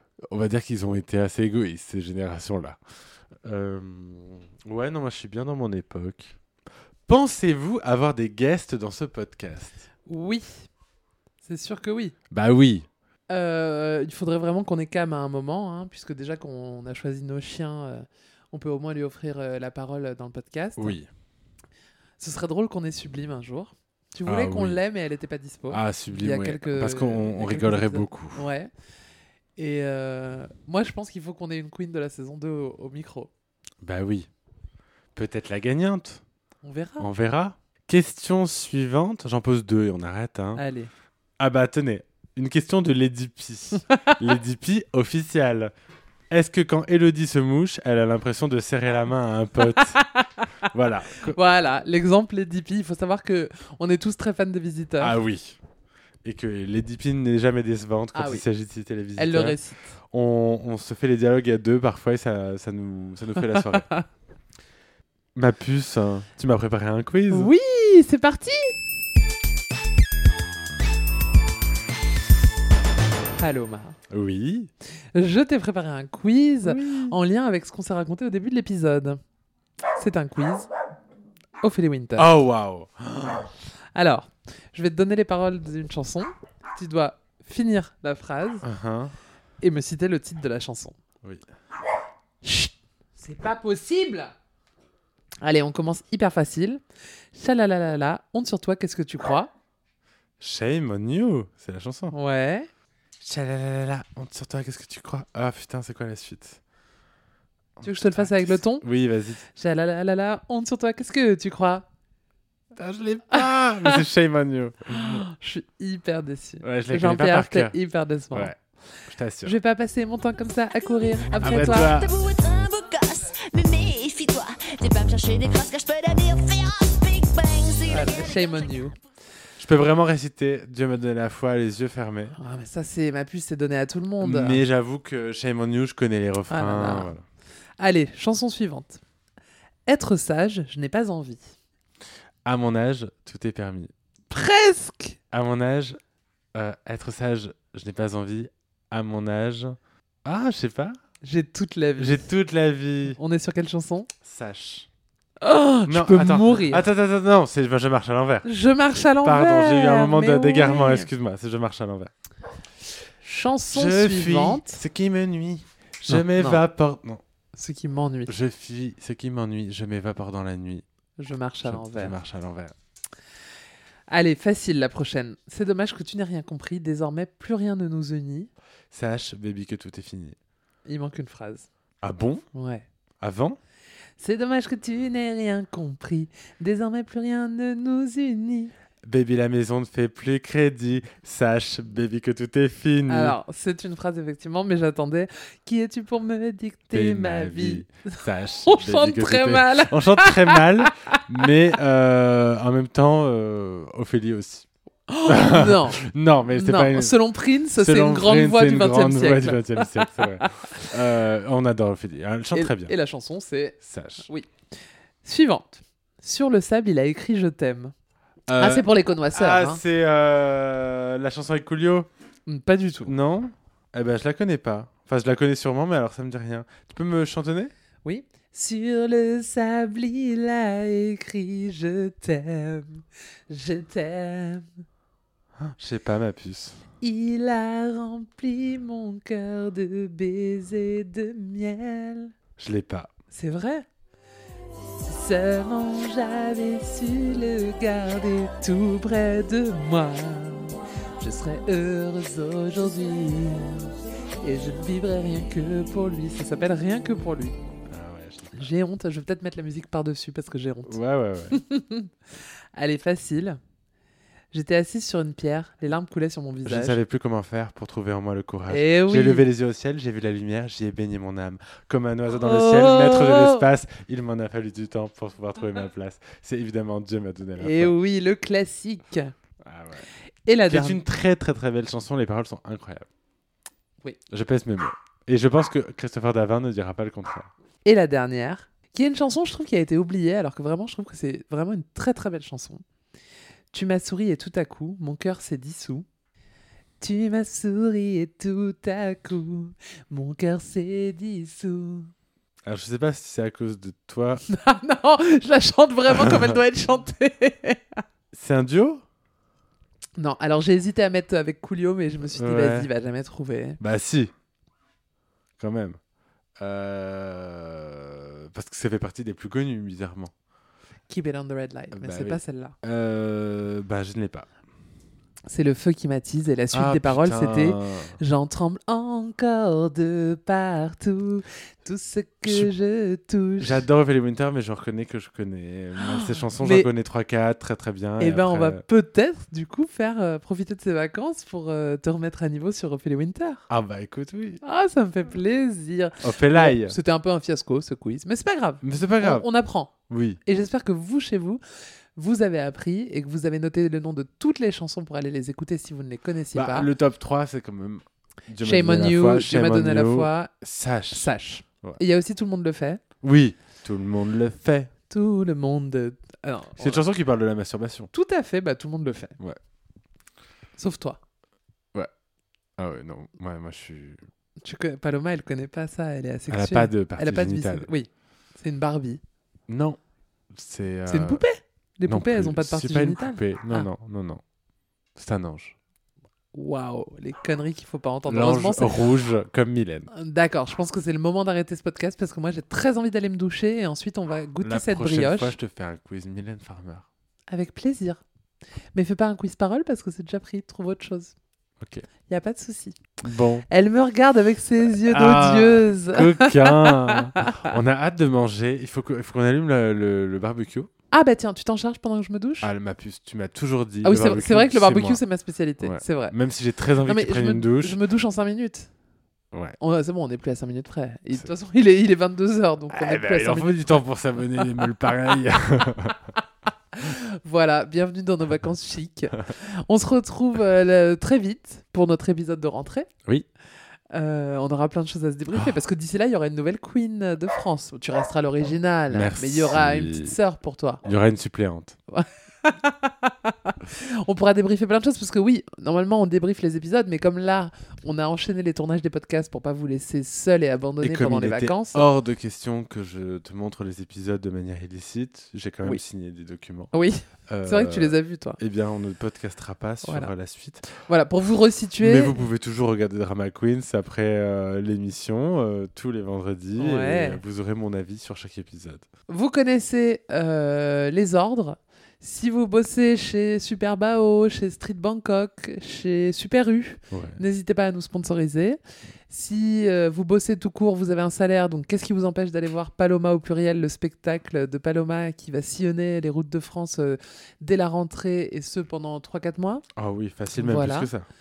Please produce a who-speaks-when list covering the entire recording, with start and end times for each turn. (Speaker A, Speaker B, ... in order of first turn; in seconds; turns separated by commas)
Speaker A: 0.3-2.8, Speaker A: 3.4-6.4, Speaker A: 7.1-9.8, Speaker B: 10.1-10.7, Speaker B: 11.4-12.2, Speaker A: 12.3-12.9, Speaker B: 13.3-21.0, Speaker A: 20.8-21.1, Speaker B: 22.2-28.7, Speaker A: 24.3-24.8, Speaker A: 25.7-28.4, Speaker B: 29.6-33.3, Speaker A: 33.8-34.3, Speaker A: 35.1-36.2, Speaker B: 36.6-37.1, Speaker A: 37.0-40.6, Speaker B: 40.6-40.9, Speaker A: 41.4-45.7, Speaker B: 43.9-44.2, Speaker A: 46.3-50.0, Speaker B: 49.7-55.1, Speaker A: 50.7-51.4, Speaker A: 55.0-55.6, Speaker A: 56.2-59.6, Speaker B: 58.1-58.4, Speaker B: 59.2-60.0, Speaker A: 60.1-63.9, Speaker B: 63.4-64.0, Speaker A: 65.3-67.5, Speaker B: 67.3-68.8, Speaker B: 73.4-74.0, Speaker A: 74.1-74.7, Speaker B: 75.2-79.2, Speaker A: 76.6-77.2, Speaker B: 80.0-80.7, Speaker B: 81.6-82.3, Speaker A: 82.2-83.5, Speaker B: 84.0-88.7, Speaker A: 88.6-89.1, Speaker B: 89.6-91.0, Speaker B: 92.4-94.3, Speaker B: 95.4-96.8, Speaker B: 97.3-99.5, Speaker A: 100.4-102.1, Speaker B: 102.1-102.7, Speaker A: 103.2-106.6, Speaker A: 107.8-109.4, Speaker B: 107.8-108.8, Speaker B: 109.5-111.9, Speaker A: 112.8-115.3, Speaker B: 113.3-114.0, Speaker B: 114.9-118.5, Speaker A: 116.6-117.8, Speaker A: 118.3-119.6, Speaker B: 119.4-121.9, Speaker A: 121.4-122.2, Speaker C: 121.5-128.7, Speaker B: 127.9-129.0, Speaker A: 129.6-132.4, Speaker B: 132.4-134.6, Speaker A: 134.2-137.2, Speaker B: 136.5-137.1, Speaker B: 137.8-139.0, Speaker B: 139.9-141.4, Speaker A: 142.4-143.9, Speaker B: 144.3-145.2, Speaker A: 145.3-146.0, Speaker A: 146.5-151.0, Speaker B: 151.2-152.3, Speaker A: 152.0-153.2, Speaker B: 153.2-154.1, Speaker A: 154.2-154.9, Speaker B: 155.4-156.9, Speaker A: 155.9-158.5, Speaker B: 158.4-161.1, Speaker A: 159.2-162.1, Speaker B: 163.2-164.8, Speaker A: 163.7-167.2, Speaker B: 166.1-166.6, Speaker B: 167.5-168.3, Speaker A: 168.3-170.8, Speaker B: 171.2-172.2, Speaker A: 171.7-172.7, Speaker B: 174.1-178.5, Speaker A: 178.9-180.4, Speaker B: 180.9-181.7, Speaker A: 182.0-182.5, Speaker B: 182.5-182.9, Speaker A: 183.2-183.6, Speaker B: 184.2-188.7, Speaker A: 189.0-193.4, Speaker B: 193.1-201.5, Speaker A: 196.9-204.7, Speaker B: 205.1-210.9, Speaker A: 205.3-207.2, Speaker A: 207.8-212.9, Speaker B: 212.5-214.5, Speaker A: 213.8-214.3, Speaker B: 215.2-217.9, Speaker A: 218.5-222.1, Speaker B: 218.6-219.8, Speaker B: 222.5-223.1, Speaker A: 223.1-227.7, Speaker B: 228.0-234.7, Speaker A: 235.6-236.8, Speaker B: 237.0-242.3, Speaker A: 242.6-243.1, Speaker B: 243.3-243.9, Speaker B: 245.0-257.6, Speaker A: 257.9-258.7, Speaker B: 258.6-261.0, Speaker A: 260.9-261.6, Speaker B: 261.5-263.6, Speaker B: 264.5-267.0, Speaker A: 266.7-277.9, Speaker B: 268.7-269.4, Speaker B: 272.3-273.7, Speaker B: 277.6-279.3, Speaker A: 279.6-280.1, Speaker B: 280.5-281.0, Speaker A: 280.7-283.1, Speaker A: 284.3-287.5, Speaker B: 287.9-292.8, Speaker B: 293.7-296.1, Speaker B: 297.0-302.1, Speaker A: 302.7-304.4, Speaker B: 304.5-308.0, Speaker A: 306.1-306.5, Speaker A: 308.3-309.0, Speaker B: 310.2-313.8, Speaker A: 312.4-312.9, Speaker A: 313.8-314.3, Speaker A: 315.6-316.0, Speaker A: 316.6-320.3, Speaker B: 321.1-322.8, Speaker A: 321.9-324.5, Speaker B: 325.5-333.8, Speaker A: 326.7-328.2, Speaker A: 333.6-338.8, Speaker B: 336.0-336.9, Speaker B: 338.2-343.7, Speaker A: 343.7-344.6, Speaker B: 344.6-349.9, Speaker A: 346.2-347.0, Speaker A: 348.8-349.5, Speaker A: 350.1-350.4, Speaker B: 350.4-351.6, Speaker B: 352.2-356.9, Speaker A: 356.5-361.3, Speaker B: 358.6-360.5, Speaker B: 361.1-363.0, Speaker A: 363.2-364.9, Speaker B: 365.1-367.0, Speaker A: 366.8-368.1, Speaker B: 368.1-369.4, Speaker B: 370.8-371.2, Speaker A: 372.8-374.2, Speaker B: 374.6-379.2, Speaker A: 376.5-377.9, Speaker A: 379.7-380.0, Speaker A: 380.5-381.4, Speaker B: 381.1-383.9, Speaker A: 382.1-384.4, Speaker A: 385.2-385.8, Speaker B: 386.5-389.0, Speaker A: 388.3-390.1, Speaker B: 390.1-395.6, Speaker A: 394.6-397.1, Speaker B: 397.5-398.2, Speaker B: 398.9-401.4, Speaker A: 401.8-402.1, Speaker B: 402.3-403.0, Speaker A: 403.2-403.7, Speaker B: 403.7-407.7, Speaker A: 405.0-410.9, Speaker B: 411.1-412.7, Speaker A: 412.6-415.2, Speaker B: 414.0-416.4, Speaker A: 415.8-418.0, Speaker B: 417.1-418.9, Speaker B: 419.8-424.1, Speaker A: 422.9-426.3, Speaker B: 424.6-424.9, Speaker B: 426.9-433.1, Speaker B: 434.1-441.0, Speaker A: 439.1-440.4, Speaker A: 441.0-442.0, Speaker B: 442.1-452.1, Speaker A: 451.0-456.9, Speaker B: 456.9-458.6, Speaker A: 457.5-460.9, Speaker B: 460.0-460.3, Speaker B: 461.1-462.4, Speaker A: 462.0-469.1, Speaker B: 466.8-467.4, Speaker B: 469.3-489.8, Speaker A: 477.1-477.4, Speaker A: 490.0-491.3, Speaker B: 490.5-491.1